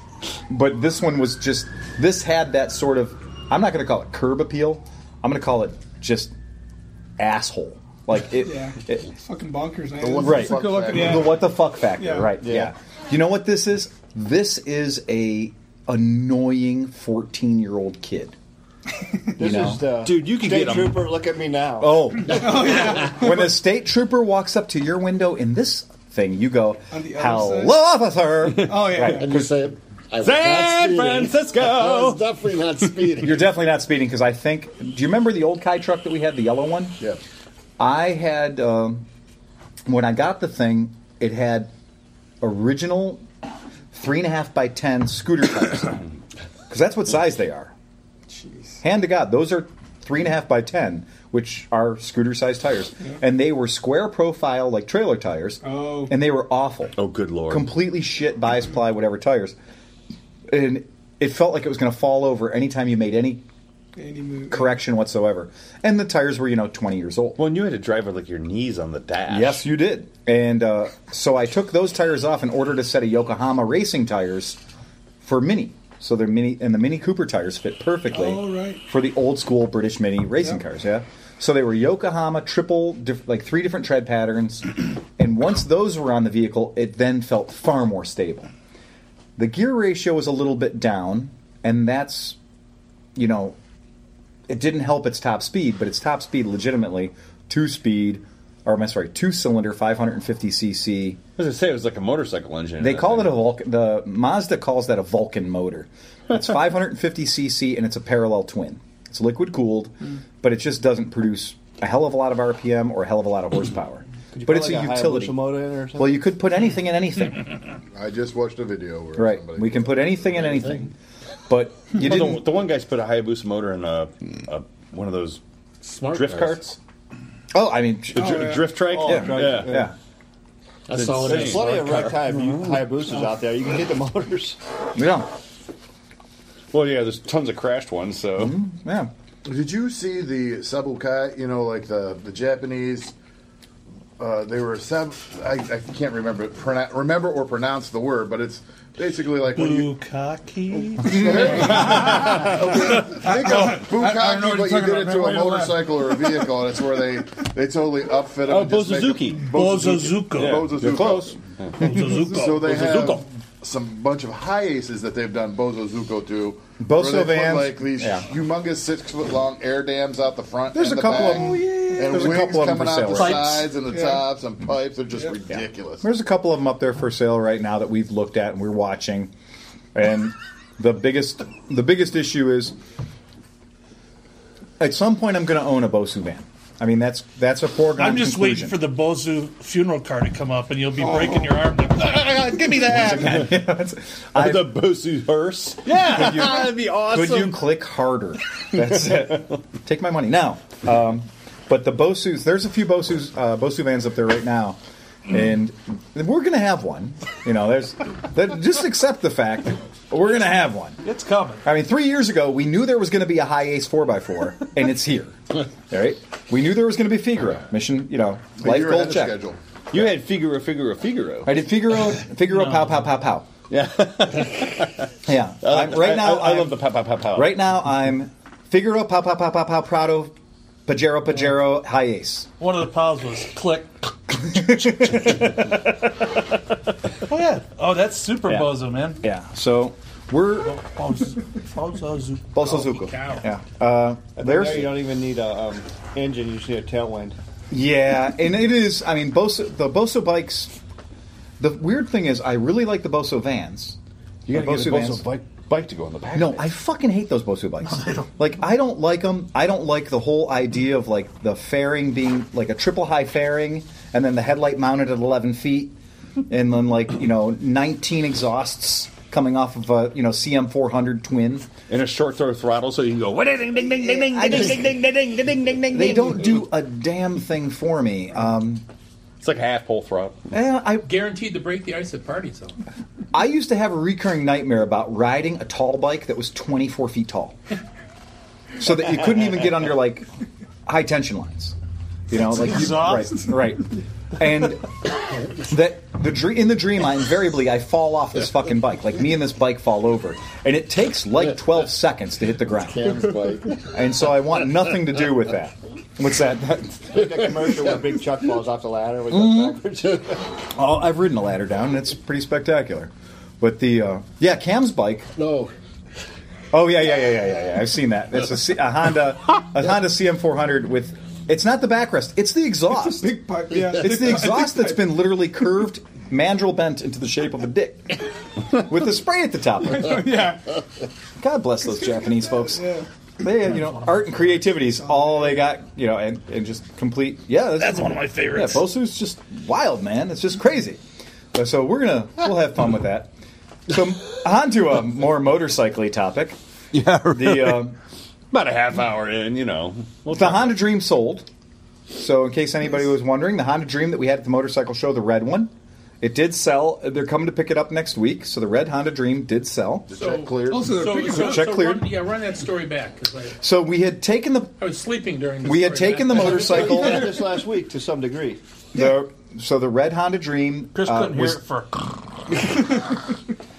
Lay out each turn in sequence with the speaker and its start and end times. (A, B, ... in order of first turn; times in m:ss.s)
0:00.5-0:06.3 A
0:07.2-0:09.1 A
0:08.4-0:12.4 B
0:10.0-0:11.4 C
0:10.2-0:18.4 A
0:12.4-0:12.7 D
0:19.4-0:22.1 D
0:19.4-0:19.8 A
0:20.0-0:21.0 E
0:21.8-0:29.5 A
0:22.3-0:23.5 B
0:26.9-0:27.8 B
0:28.5-0:28.9 E
0:28.6-0:29.4 B
0:29.1-0:33.4 F
0:30.2-0:32.2 E
0:33.2-0:37.0 A
0:37.8-0:39.0 A
0:39.9-0:41.7 A
0:42.4-0:43.2 A
0:43.9-0:46.0 A
0:46.7-0:47.7 A
0:48.3-0:48.8 B
0:48.8-0:57.0 A
0:55.6-0:56.2 B
0:57.0-0:57.7 E
0:57.5-0:59.6 A
1:00.5-1:03.4 A
1:04.0-1:04.8 B
1:04.5-1:07.4 A
1:07.4-1:09.6 E
1:09.3-1:14.6 A
1:15.2-1:28.5 A
1:18.1-1:18.8 B
1:29.4-1:32.4 A
1:33.2-1:33.6 A
1:34.5-1:41.2 A
1:41.4-1:43.4 E
1:42.8-1:55.4 A
1:54.3-1:56.2 D
1:56.0-1:57.5 A
1:57.9-2:00.1 C
1:59.2-2:00.9 A
2:01.5-2:02.4 A
2:01.9-2:05.4 E
2:05.8-2:06.6 F
2:06.1-2:06.8 E
2:07.5-2:09.9 A
2:08.1-2:09.8 E
2:08.2-2:08.8 B
2:08.8-2:09.9 D
2:10.9-2:11.8 F
2:11.0-2:12.9 E
2:11.2-2:14.6 D
2:15.0-2:15.3 A
2:16.7-2:18.6 E
2:18.4-2:19.1 A
2:19.4-2:23.1 C
2:24.2-2:29.9 C
2:29.6-2:32.2 G
2:31.0-2:41.4 C
2:31.9-2:32.4 E
2:32.0-2:36.5 B
2:38.4-2:39.5 E
2:39.5-2:40.7 G
2:40.3-2:41.8 E
2:41.8-2:43.1 G
2:42.0-2:42.4 B
2:42.3-2:56.1 C
2:42.5-2:43.2 E
2:46.8-2:48.3 A
2:50.7-2:53.7 A
2:51.1-2:52.4 B
2:53.1-2:53.5 E
2:53.9-2:54.2 B
2:55.5-2:59.3 A
3:00.0-3:02.8 A
3:04.8-3:08.8 A
3:08.0-3:12.9 G
3:12.1-3:13.7 E
3:12.9-3:14.8 A
3:14.4-3:17.6 E
3:16.0-3:31.0 A
3:31.0-3:31.6 G
3:31.6-3:39.4 A
3:38.6-3:39.6 C
3:39.9-3:41.5 E
3:41.5-3:43.5 A
3:43.7-3:45.1 E
3:45.3-3:50.3 A
3:45.6-3:47.5 E
3:50.9-3:52.5 A
3:52.6-3:54.8 G
3:54.6-3:55.6 A
3:57.3-3:59.2 G
3:59.2-4:00.8 A
4:00.6-4:02.6 G
4:02.6-4:05.0 A
4:02.6-4:03.5 H
4:04.4-4:07.4 D
4:07.7-4:10.7 A
4:11.6-4:14.0 A
4:14.5-4:16.7 E
4:14.5-4:15.2 A
4:16.3-4:26.0 A
4:26.5-4:31.7 A
4:31.9-4:36.5 E
4:34.2-4:34.9 A
4:35.9-4:38.8 A
4:39.4-4:40.5 E
4:40.5-4:41.1 A
4:41.0-4:42.8 H
4:43.3-4:47.6 A
4:48.8-4:50.3 A
4:50.9-4:51.8 A
4:52.3-4:55.1 A
4:52.6-4:53.5 G
4:55.6-5:03.2 A
5:02.8-5:03.9 F
5:03.9-5:07.6 A
5:07.1-5:10.4 D
5:09.3-5:09.8 A
5:10.7-5:15.3 A
5:15.4-5:15.7 F
5:16.7-5:30.6 A
5:22.9-5:25.1 B
5:29.9-5:30.7 B
5:31.4-5:41.0 A
5:32.7-5:33.1 B
5:37.8-5:38.8 G
5:41.5-5:43.3 A
5:43.9-5:46.6 A
5:46.9-5:47.9 E
5:47.3-5:48.0 A
5:48.5-5:50.8 E
5:50.3-5:51.5 A
5:52.1-6:00.1 A
6:00.1-6:01.3 C
6:00.1-6:03.6 H
6:00.7-6:01.7 B
6:01.3-6:02.1 A
6:03.6-6:04.8 A
6:04.8-6:07.2 H
6:05.6-6:07.3 A
6:06.5-6:08.6 D
6:08.9-6:11.6 A
6:10.9-6:12.0 G